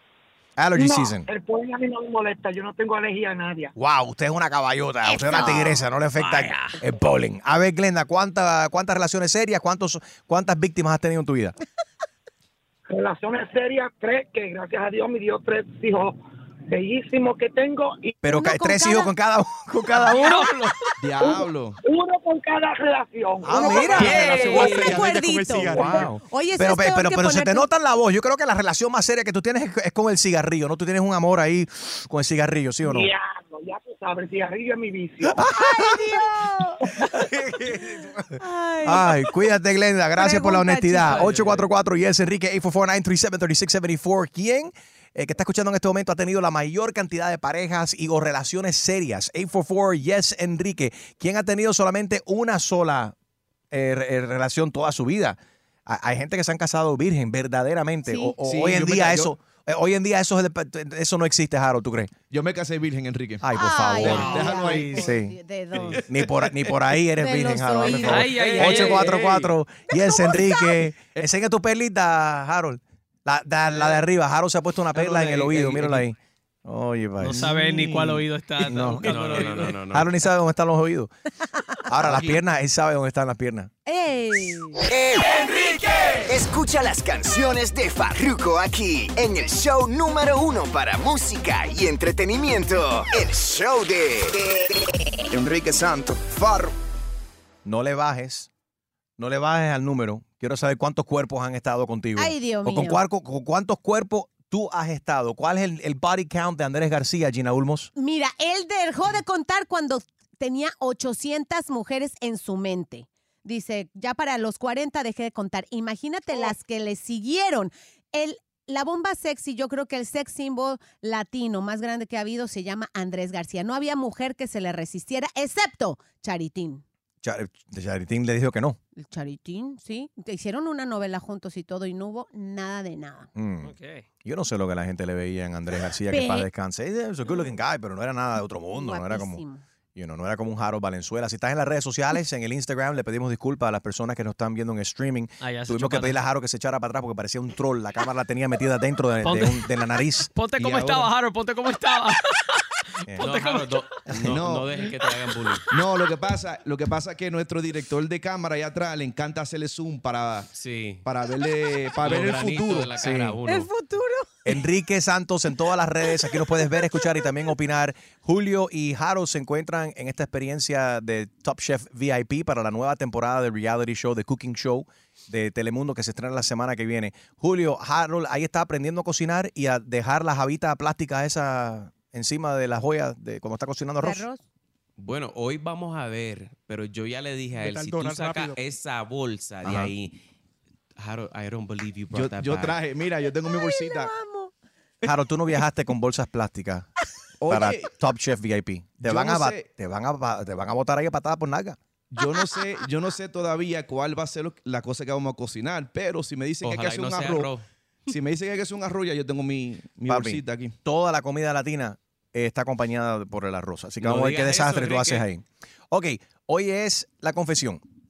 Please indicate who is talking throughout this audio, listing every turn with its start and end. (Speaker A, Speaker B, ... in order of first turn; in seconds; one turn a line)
Speaker A: 0.6-1.3
Speaker B: 0.8-3.7
Speaker A: 3.8-11.6
Speaker C: 5.0-5.8
Speaker D: 6.2-6.8
Speaker B: 12.9-16.2
Speaker B: 16.7-18.2
Speaker A: 18.2-20.4
Speaker C: 18.3-19.1
Speaker D: 20.1-20.7
Speaker C: 20.2-20.5
Speaker E: 21.0-21.8
Speaker B: 21.2-24.6
Speaker A: 23.4-33.1
Speaker C: 23.6-27.7
Speaker E: 23.8-25.1
Speaker D: 24.3-24.7
Speaker B: 33.8-35.2
Speaker A: 35.3-36.0
Speaker C: 35.5-36.8
Speaker A: 37.1-53.1
Speaker C: 38.4-39.1
Speaker C: 40.2-41.3
Speaker A: 53.7-62.1
Speaker C: 58.1-58.3
Speaker E: 58.4-59.3
Speaker E: 62.3-65.0
Speaker A: 63.4-65.3
Speaker C: 63.5-66.0
Speaker D: 64.0-64.5
Speaker E: 65.8-66.5
Speaker A: 66.0-77.5
Speaker C: 67.2-68.3
Speaker D: 68.0-69.2
Speaker E: 68.3-69.5
Speaker C: 70.0-70.7
Speaker E: 73.7-74.0
Speaker E: 74.9-76.1
Speaker D: 77.2-79.8
Speaker E: 77.3-78.2
Speaker A: 78.6-81.1
Speaker F: 78.7-80.1
Speaker A: 81.9-83.7
Speaker C: 83.8-84.8
Speaker G: 86.2-94.5
Speaker A: 97.6-98.5
Speaker A: 99.2-107.9
Speaker C: 102.2-103.0
Speaker C: 108.0-126.8
Speaker A: 127.2-128.8
Speaker C: 129.0-133.3
Speaker A: 133.3-139.4
Speaker D: 133.6-134.0
Speaker C: 136.1-136.5
Speaker C: 138.7-139.6
Speaker A: 139.9-150.3
Speaker D: 145.4-146.2
Speaker D: 149.2-149.6
Speaker D: 150.3-152.3
Speaker E: 150.6-151.1
Speaker D: 153.1-153.9
Speaker F: 153.2-155.7
Speaker E: 154.2-154.8
Speaker E: 155.7-160.5
Speaker F: 160.5-161.0
Speaker E: 161.0-162.9
Speaker F: 162.0-163.7
Speaker A: 162.9-163.4
Speaker C: 163.4-164.5
Speaker A: 164.4-184.2
Speaker C: 166.7-167.2
Speaker C: 184.0-184.4
Speaker F: 185.0-190.2
Speaker A: 187.6-188.4
Speaker A: 189.6-189.9
Speaker F: 191.0-192.8
Speaker E: 192.1-194.1
Speaker C: 193.5-194.5
Speaker A: 195.0-196.9
Speaker E: 197.4-197.9
Speaker A: 197.5-201.8
Speaker E: 199.0-199.7
Speaker E: 202.1-207.5
Speaker F: 206.6-207.6
Speaker E: 208.1-210.7
Speaker A: 210.1-217.8
Speaker F: 214.0-215.2